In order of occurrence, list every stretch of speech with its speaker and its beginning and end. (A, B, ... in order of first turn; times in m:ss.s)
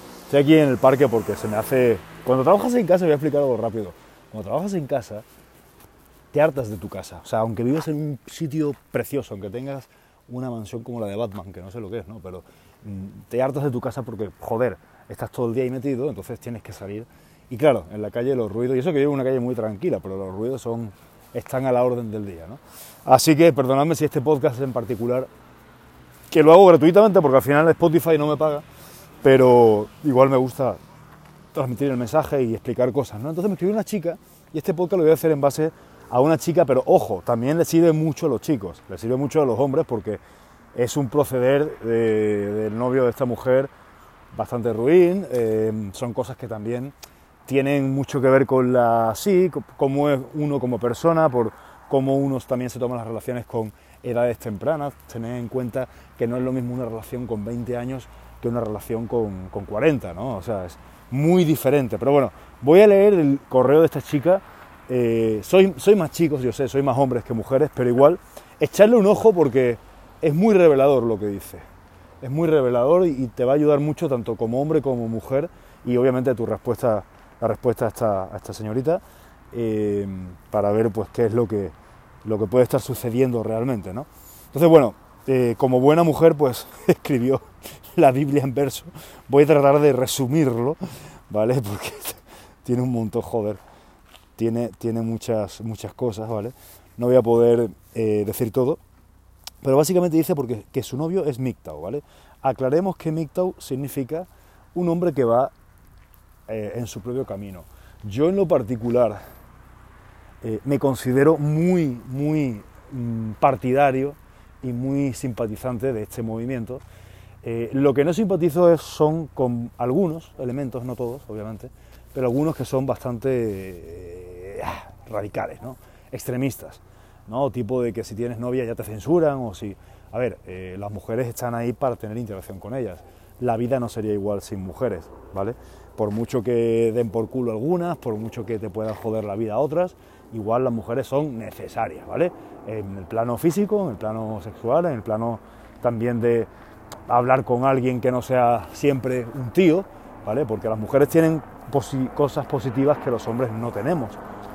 0:00.3-0:05.2 A
0:06.3-0:25.3 A
0:26.3-0:28.6 A
0:29.2-0:30.8 A
0:31.5-0:40.2 A
0:40.7-0:43.7 A
0:44.3-0:46.9 A
0:47.5-1:11.6 A
1:12.2-1:21.7 A
1:22.2-1:33.6 A
1:34.4-1:38.8 A
1:39.6-1:45.5 A
1:46.5-1:49.2 A
1:50.4-1:56.8 A
1:57.4-2:26.5 A
2:27.1-2:34.2 A